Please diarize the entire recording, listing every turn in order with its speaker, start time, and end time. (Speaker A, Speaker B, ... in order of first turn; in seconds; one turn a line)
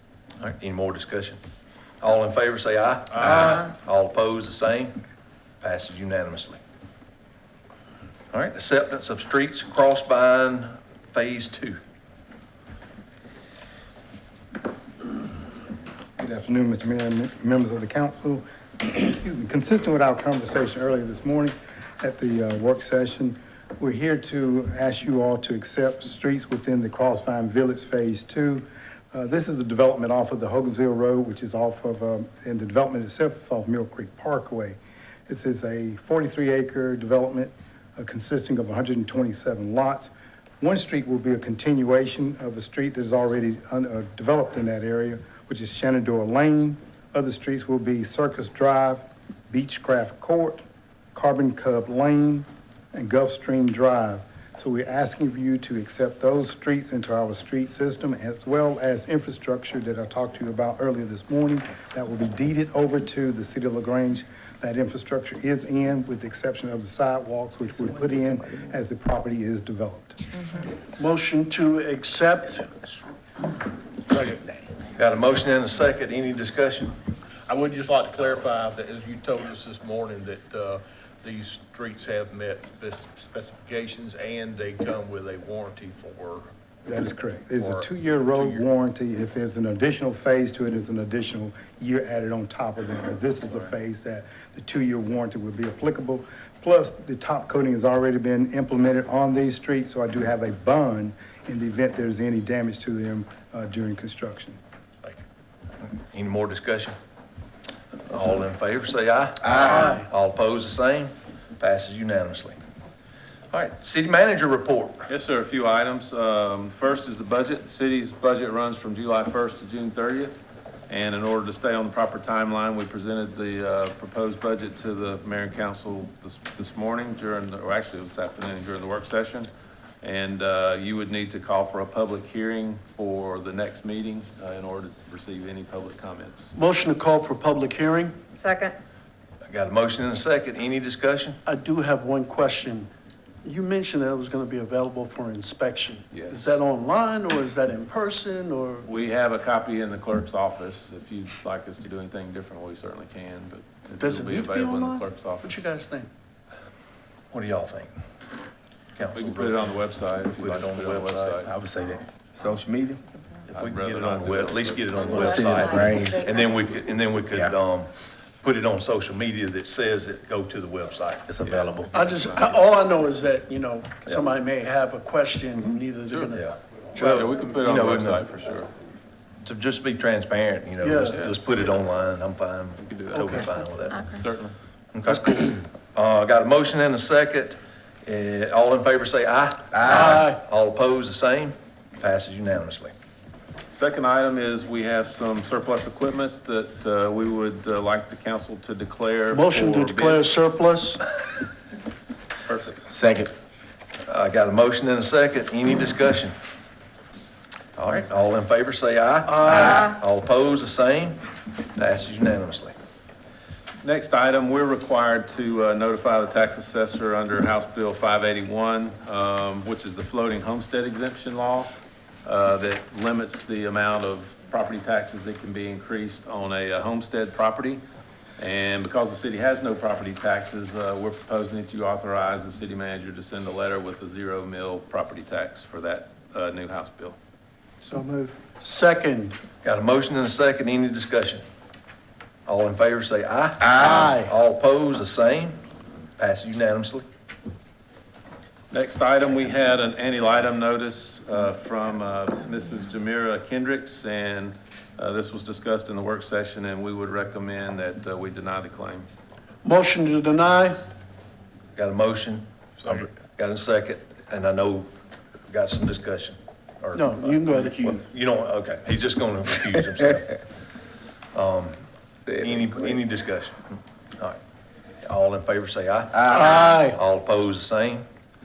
Speaker A: 0.4-1.4
Speaker A: 2.0-5.0
Speaker A: 5.6-6.6
Speaker A: 8.3-11.8
Speaker B: 16.2-50.6
Speaker B: 51.1-70.6
Speaker C: 71.0-72.8
Speaker C: 74.1-74.4
Speaker A: 75.0-77.0
Speaker D: 77.5-86.5
Speaker B: 86.8-104.6
Speaker D: 87.6-88.6
Speaker A: 105.9-107.0
Speaker A: 108.1-112.6
Speaker C: 109.6-110.0
Speaker A: 113.5-115.1
Speaker E: 115.1-129.5
Speaker E: 130.0-136.5
Speaker C: 136.5-138.2
Speaker F: 138.4-138.7
Speaker A: 139.5-141.4
Speaker C: 141.4-142.9
Speaker C: 143.4-148.9
Speaker E: 146.1-146.5
Speaker E: 148.8-155.6
Speaker C: 154.0-156.1
Speaker A: 157.3-157.9
Speaker A: 159.0-159.7
Speaker E: 159.1-161.5
Speaker A: 160.3-161.5
Speaker G: 161.4-163.0
Speaker A: 163.5-167.9
Speaker E: 163.5-165.8
Speaker F: 165.0-166.4
Speaker G: 165.6-166.2
Speaker G: 167.3-167.6
Speaker A: 168.4-171.3
Speaker G: 171.3-171.9
Speaker E: 171.4-172.6
Speaker C: 171.9-177.2
Speaker A: 176.3-178.2
Speaker E: 177.0-178.7
Speaker A: 179.4-184.0
Speaker C: 180.8-181.2
Speaker E: 182.8-183.4
Speaker C: 183.1-183.5
Speaker F: 183.9-184.2
Speaker E: 184.0-184.5
Speaker A: 184.9-192.9
Speaker G: 189.7-190.1
Speaker C: 189.8-190.4
Speaker E: 193.7-200.2
Speaker C: 199.3-201.1
Speaker E: 202.4-202.8
Speaker G: 202.9-203.3
Speaker A: 204.1-206.3
Speaker A: 207.8-211.2
Speaker C: 209.3-209.9
Speaker A: 211.7-212.7
Speaker E: 213.8-221.7
Speaker E: 222.2-227.8
Speaker E: 228.4-237.2
Speaker C: 237.8-239.3
Speaker A: 239.6-241.4
Speaker A: 242.4-245.6
Speaker C: 243.6-244.3
Speaker A: 246.2-247.0
Speaker E: 248.7-259.1
Speaker C: 259.6-260.8
Speaker A: 261.8-264.9
Speaker A: 265.5-270.4
Speaker C: 266.9-268.1
Speaker A: 271.3-271.8
Speaker A: 272.3-274.4
Speaker G: 272.4-272.9
Speaker A: 275.0-278.1
Speaker C: 276.3-277.0